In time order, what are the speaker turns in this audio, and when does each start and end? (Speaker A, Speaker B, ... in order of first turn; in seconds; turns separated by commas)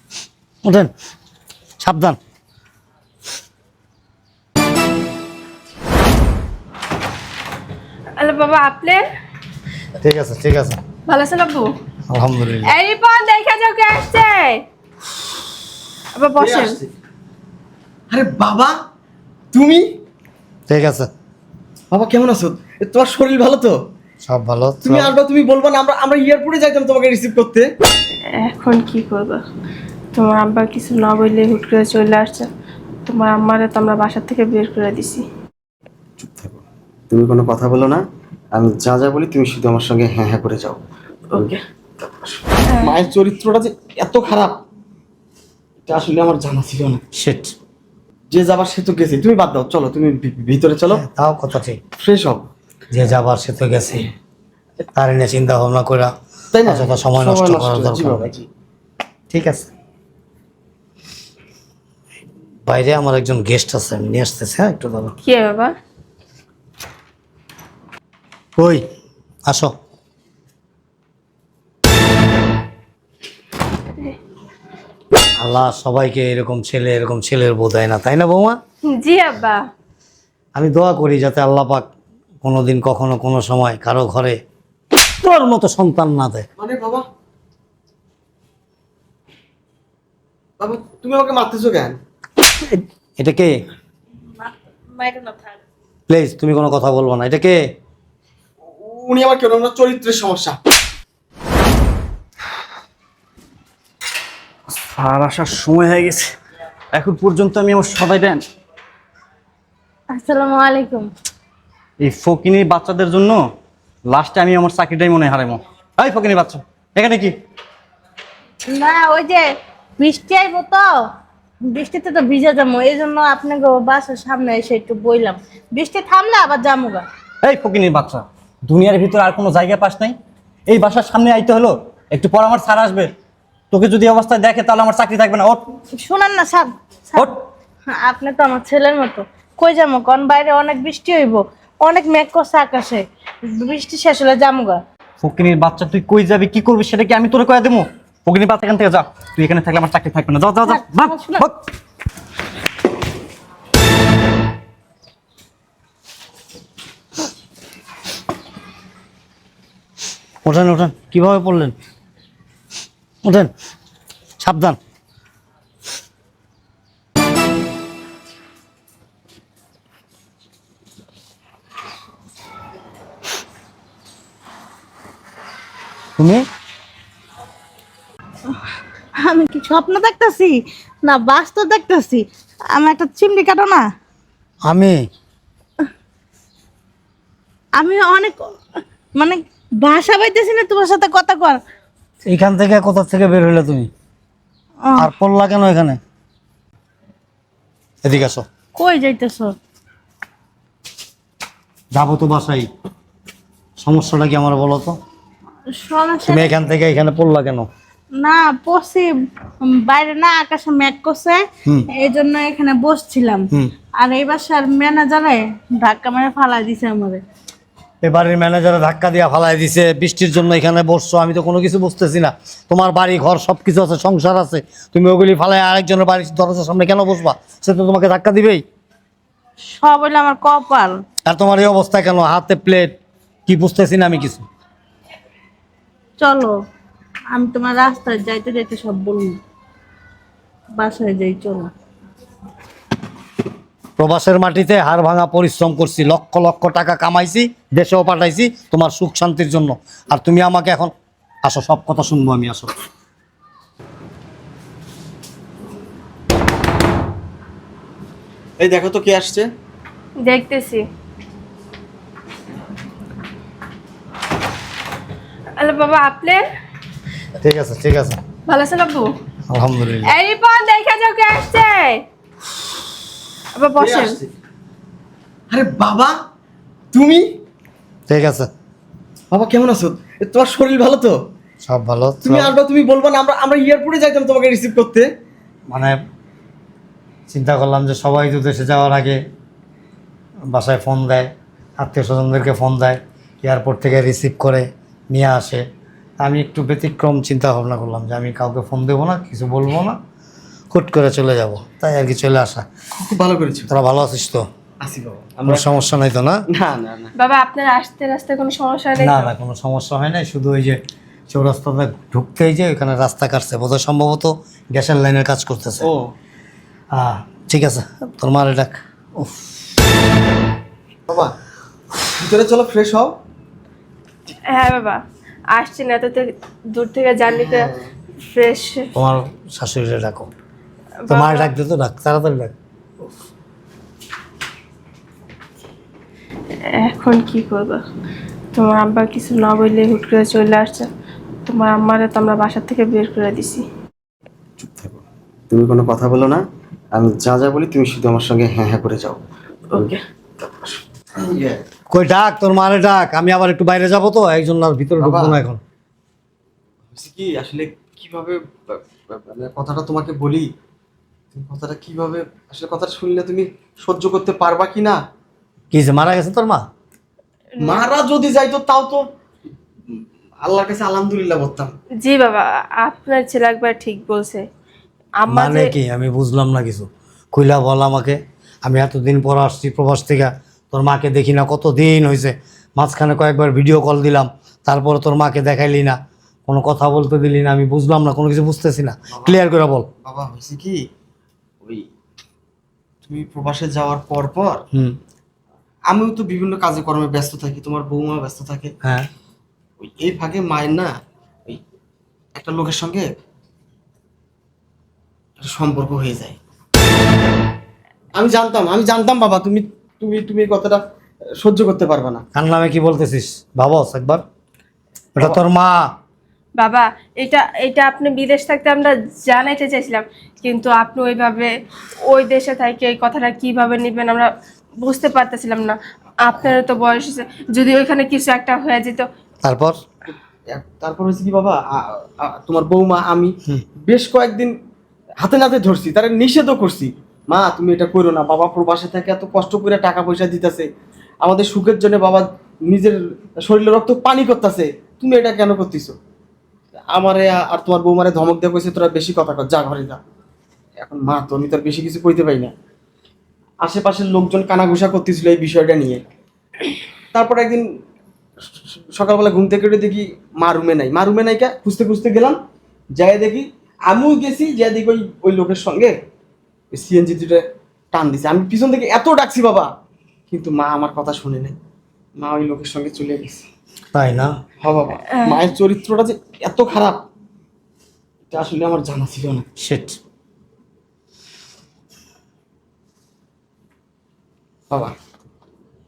Speaker A: 0.6-0.9, Speaker A: 1.8-2.2, Speaker B: 8.2-9.0, Speaker A: 10.0-10.8, Speaker B: 11.1-11.7, Speaker A: 12.1-12.7, Speaker B: 12.7-14.6, Speaker B: 16.1-16.8, Speaker C: 16.4-16.9, Speaker C: 18.1-18.7, Speaker C: 19.5-19.9, Speaker A: 20.7-21.1, Speaker C: 21.9-23.8, Speaker A: 24.2-25.1, Speaker C: 24.8-27.6, Speaker B: 28.4-29.4, Speaker B: 30.1-32.5, Speaker B: 33.0-35.2, Speaker C: 36.2-36.5, Speaker C: 37.1-38.0, Speaker C: 38.5-40.8, Speaker B: 41.3-41.6, Speaker C: 42.0-44.6, Speaker B: 42.7-43.0, Speaker C: 45.9-47.0, Speaker A: 47.1-47.5, Speaker C: 48.3-51.0, Speaker A: 50.9-51.8, Speaker C: 52.0-52.5, Speaker A: 52.9-54.1, Speaker A: 54.9-56.1, Speaker C: 56.5-58.5, Speaker A: 56.6-58.3, Speaker A: 59.3-59.7, Speaker A: 62.6-65.2, Speaker B: 65.2-65.7, Speaker A: 68.6-68.8, Speaker A: 69.5-69.7, Speaker A: 75.4-78.6, Speaker B: 78.8-79.6, Speaker A: 80.5-81.9, Speaker A: 82.4-84.4, Speaker A: 85.2-86.5, Speaker C: 86.6-87.0, Speaker C: 90.6-92.0, Speaker A: 92.7-93.5, Speaker D: 94.4-95.5, Speaker A: 96.1-97.6, Speaker C: 98.8-100.6, Speaker E: 104.8-106.3, Speaker E: 106.9-108.4, Speaker D: 110.1-111.1, Speaker E: 112.0-113.5, Speaker E: 114.0-117.3, Speaker D: 118.7-121.0, Speaker D: 121.6-127.0, Speaker E: 127.4-133.1, Speaker E: 133.7-135.6, Speaker D: 135.9-137.3, Speaker D: 137.9-144.8, Speaker E: 145.2-151.6, Speaker D: 150.6-151.4, Speaker A: 160.4-161.7, Speaker A: 163.2-163.5, Speaker A: 164.4-164.8, Speaker A: 176.2-176.4, Speaker D: 179.2-183.8, Speaker A: 184.6-185.1, Speaker D: 187.8-188.6, Speaker D: 189.2-191.6, Speaker A: 192.2-193.9, Speaker D: 194.8-195.1, Speaker A: 195.0-196.0, Speaker A: 198.0-198.4, Speaker D: 198.7-199.5, Speaker A: 201.9-202.7, Speaker A: 203.8-205.0, Speaker D: 205.7-206.5, Speaker A: 206.3-207.7, Speaker D: 208.1-217.2, Speaker A: 218.0-228.6, Speaker D: 229.6-231.0, Speaker A: 231.3-234.4, Speaker D: 236.2-236.5, Speaker D: 237.3-239.4, Speaker D: 240.8-241.7, Speaker A: 244.0-250.9, Speaker A: 251.4-252.7, Speaker C: 258.6-259.5, Speaker B: 260.2-260.8, Speaker B: 265.6-266.4, Speaker A: 267.4-268.2, Speaker B: 268.5-269.1, Speaker A: 269.5-270.1, Speaker B: 270.1-272.0, Speaker B: 273.6-274.1, Speaker C: 273.8-274.3, Speaker C: 275.5-276.1, Speaker C: 276.9-277.3, Speaker A: 278.1-278.5, Speaker C: 279.3-281.2, Speaker A: 281.6-282.5, Speaker C: 282.2-285.1, Speaker A: 285.7-286.0, Speaker A: 287.3-289.2, Speaker A: 290.5-295.6, Speaker A: 296.2-300.0, Speaker A: 300.7-302.6, Speaker C: 303.0-303.7, Speaker A: 303.7-304.5, Speaker C: 304.8-305.7, Speaker A: 305.4-306.4, Speaker C: 306.5-307.1, Speaker B: 307.2-309.3, Speaker A: 309.0-310.8, Speaker A: 311.3-315.9, Speaker C: 315.8-316.1, Speaker A: 316.9-319.5, Speaker C: 321.1-321.3, Speaker C: 322.2-323.1, Speaker B: 324.5-325.0, Speaker B: 325.5-327.7, Speaker C: 327.2-327.9, Speaker B: 328.3-328.9, Speaker A: 328.9-330.3, Speaker B: 331.0-331.5, Speaker A: 331.1-332.5, Speaker B: 336.8-337.8, Speaker B: 338.5-340.9, Speaker B: 341.5-343.6, Speaker C: 344.6-345.0, Speaker C: 345.5-346.4, Speaker C: 346.9-349.2, Speaker B: 349.7-350.0, Speaker C: 350.4-351.6, Speaker A: 351.9-355.6, Speaker C: 355.0-355.4, Speaker C: 356.9-360.5, Speaker C: 361.3-365.0, Speaker A: 365.7-366.6, Speaker C: 367.6-369.0, Speaker C: 369.9-371.7, Speaker B: 372.0-374.4, Speaker B: 375.2-375.7, Speaker A: 375.3-389.9, Speaker C: 389.1-389.4, Speaker C: 390.0-390.8, Speaker C: 393.1-394.6, Speaker C: 395.9-398.7, Speaker A: 398.8-399.1, Speaker C: 399.8-400.9, Speaker C: 402.4-403.1, Speaker C: 405.4-406.4, Speaker C: 408.1-410.8, Speaker C: 411.4-412.2, Speaker A: 412.3-414.2, Speaker A: 415.1-415.8, Speaker B: 416.6-421.5, Speaker B: 422.1-424.3, Speaker B: 424.8-429.1, Speaker A: 429.4-429.8, Speaker C: 430.1-434.5, Speaker C: 435.2-440.6, Speaker C: 441.2-445.9, Speaker C: 446.9-450.0, Speaker C: 450.8-452.5, Speaker C: 453.6-456.0, Speaker C: 457.1-457.6, Speaker C: 458.9-462.4, Speaker C: 462.9-465.9, Speaker C: 466.7-469.7, Speaker C: 470.3-471.6, Speaker C: 472.2-473.4, Speaker A: 473.9-474.3, Speaker C: 474.6-477.0, Speaker B: 475.2-475.5, Speaker C: 478.3-479.4, Speaker A: 479.6-480.0